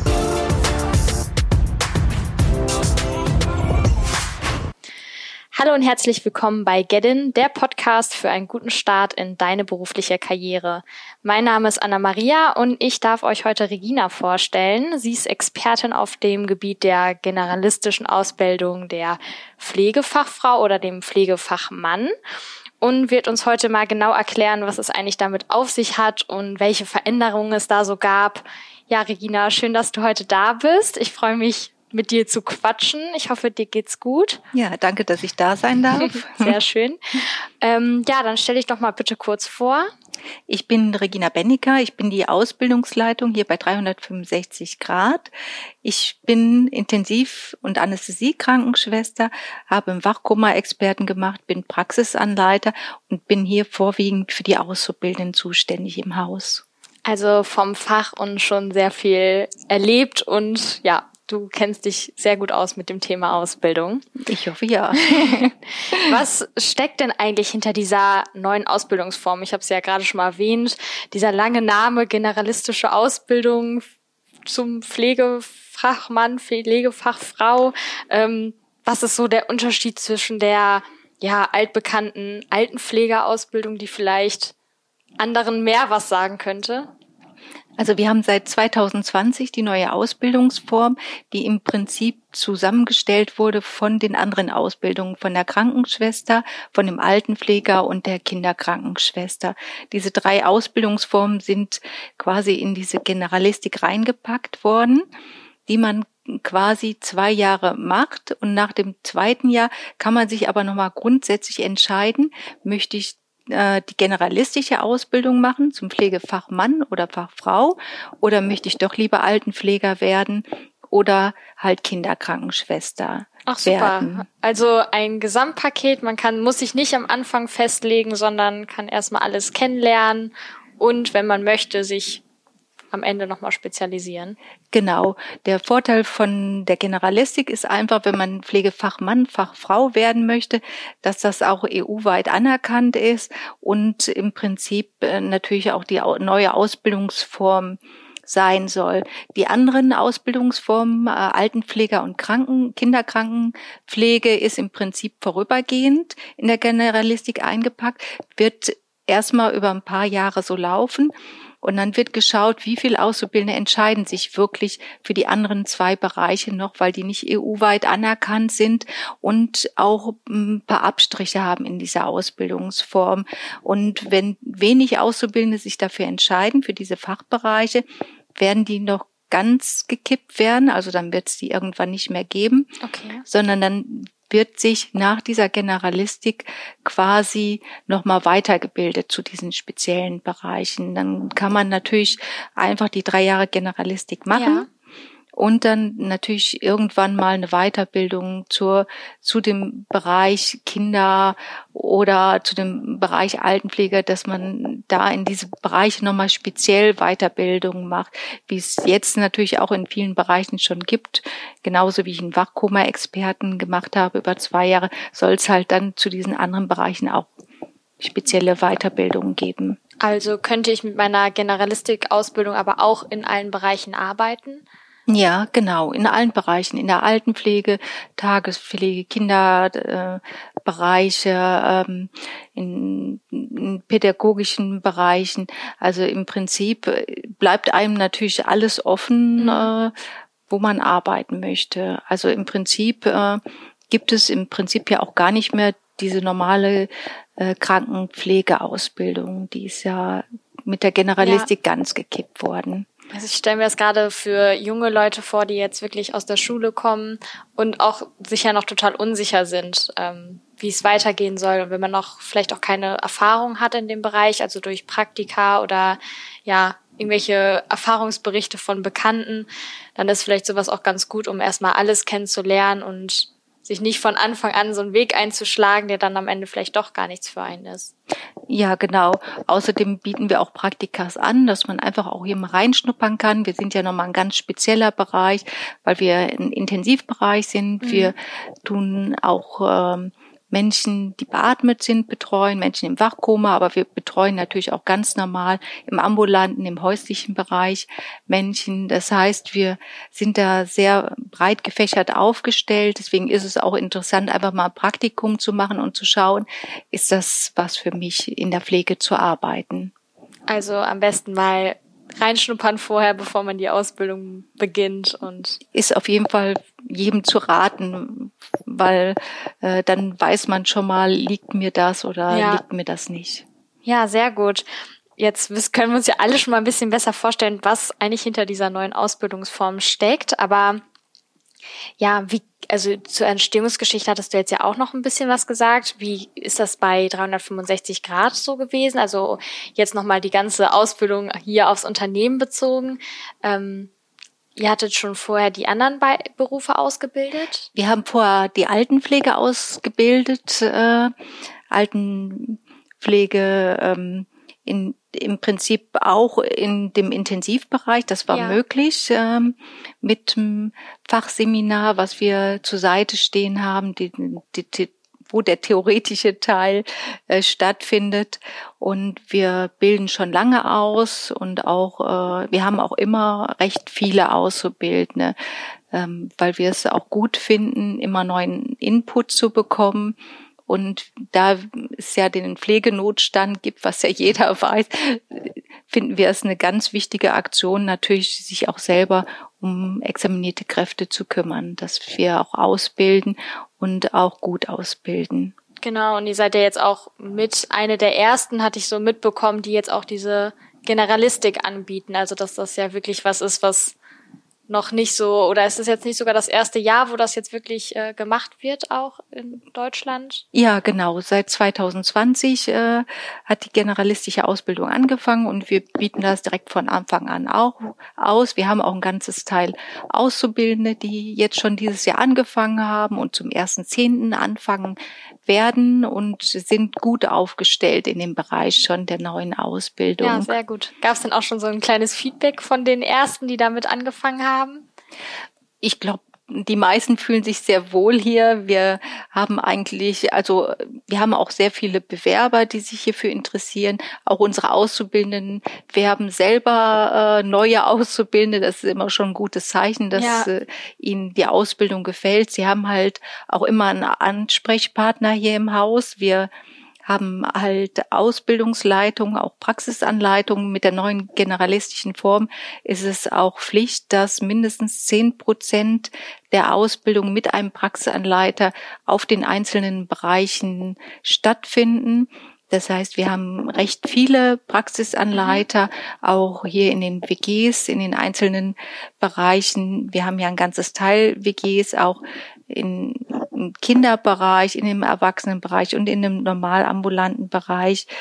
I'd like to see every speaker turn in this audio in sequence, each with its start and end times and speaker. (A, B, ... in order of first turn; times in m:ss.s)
0:05.5-0:22.1 A
0:22.8-0:34.4 A
0:34.5-0:36.6 B
0:36.1-0:39.9 A
0:40.5-0:45.3 B
0:45.8-0:56.6 B
0:57.0-1:04.1 A
1:04.2-1:06.1 B
1:06.0-1:13.9 A
1:14.4-1:24.5 A
1:25.2-1:26.9 A
1:27.8-1:45.0 B
1:45.7-2:04.3 B
2:03.5-2:12.2 A
2:12.9-2:14.4 A
2:14.7-2:57.8 B
2:58.4-3:02.7 B
3:02.8-3:03.2 A
3:03.3-3:14.7 B
3:14.3-3:14.7 A
3:15.4-3:37.3 B
3:38.0-3:39.8 B
3:40.0-3:44.6 A
3:45.1-3:59.9 B
3:59.4-3:59.7 A
4:00.5-4:12.9 B
4:11.2-4:11.5 A
4:13.1-4:37.9 A
4:38.5-5:09.9 B
4:47.8-4:48.1 A
5:10.5-5:15.6 A
5:15.8-5:23.4 B
5:22.3-5:22.6 A
5:23.8-5:24.7 A
5:25.2-5:30.8 A
5:32.0-5:43.9 A
5:44.6-5:47.7 A
5:47.8-5:51.1 B
5:51.7-6:15.4 B
5:58.3-5:58.6 A
6:15.9-6:20.2 B
6:20.7-6:35.5 B
6:35.8-6:44.0 A
6:44.7-6:50.4 A
6:50.5-7:10.5 B
7:10.2-7:14.8 A
7:15.8-7:36.5 B
7:30.2-7:30.5 A
7:37.1-8:08.1 B
7:55.3-7:55.6 A